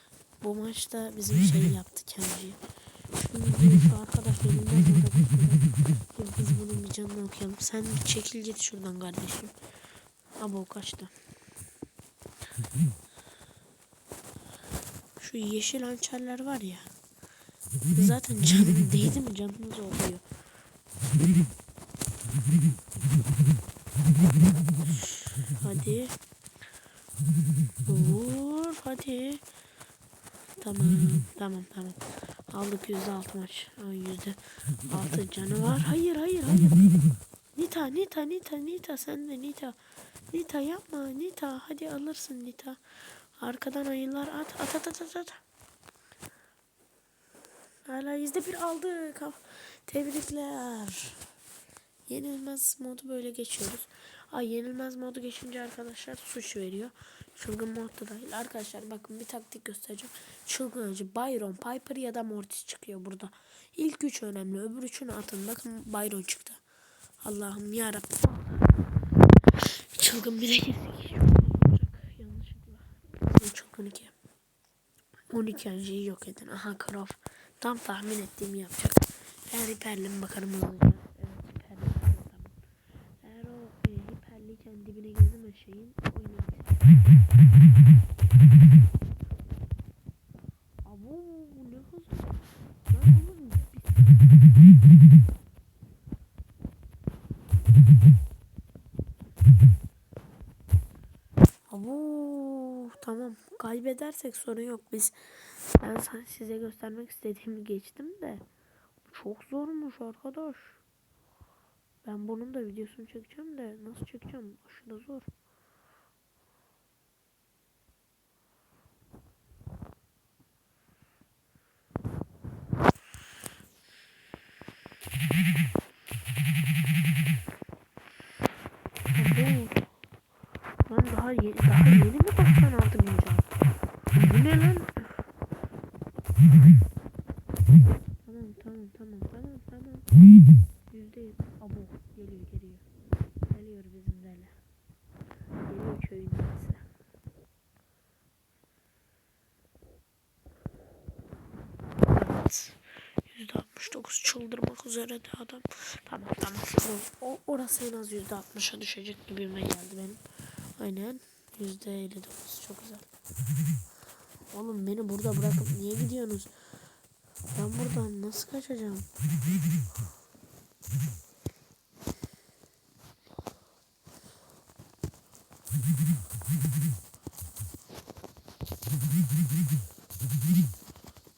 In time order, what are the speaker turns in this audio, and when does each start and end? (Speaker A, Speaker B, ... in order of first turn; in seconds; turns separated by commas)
Speaker A: 0.4-2.6, Speaker A: 3.1-9.6, Speaker A: 10.4-11.1, Speaker A: 15.2-16.9, Speaker A: 17.9-20.2, Speaker A: 25.5-26.2, Speaker A: 27.9-29.4, Speaker A: 30.6-36.9, Speaker A: 37.5-45.4, Speaker A: 47.9-51.2, Speaker A: 52.1-66.6, Speaker A: 67.2-68.7, Speaker A: 69.5-74.1, Speaker A: 75.3-82.6, Speaker A: 83.2-87.0, Speaker A: 90.8-94.3, Speaker A: 101.7-108.5, Speaker A: 109.0-110.8, Speaker A: 112.0-115.3, Speaker A: 129.1-129.8, Speaker A: 130.9-133.5, Speaker A: 134.1-135.2, Speaker A: 138.2-140.1, Speaker A: 140.9-142.8, Speaker A: 143.5-144.6, Speaker A: 145.6-146.9, Speaker A: 152.1-160.2, Speaker A: 160.8-163.1, Speaker A: 164.5-166.5, Speaker A: 167.5-169.1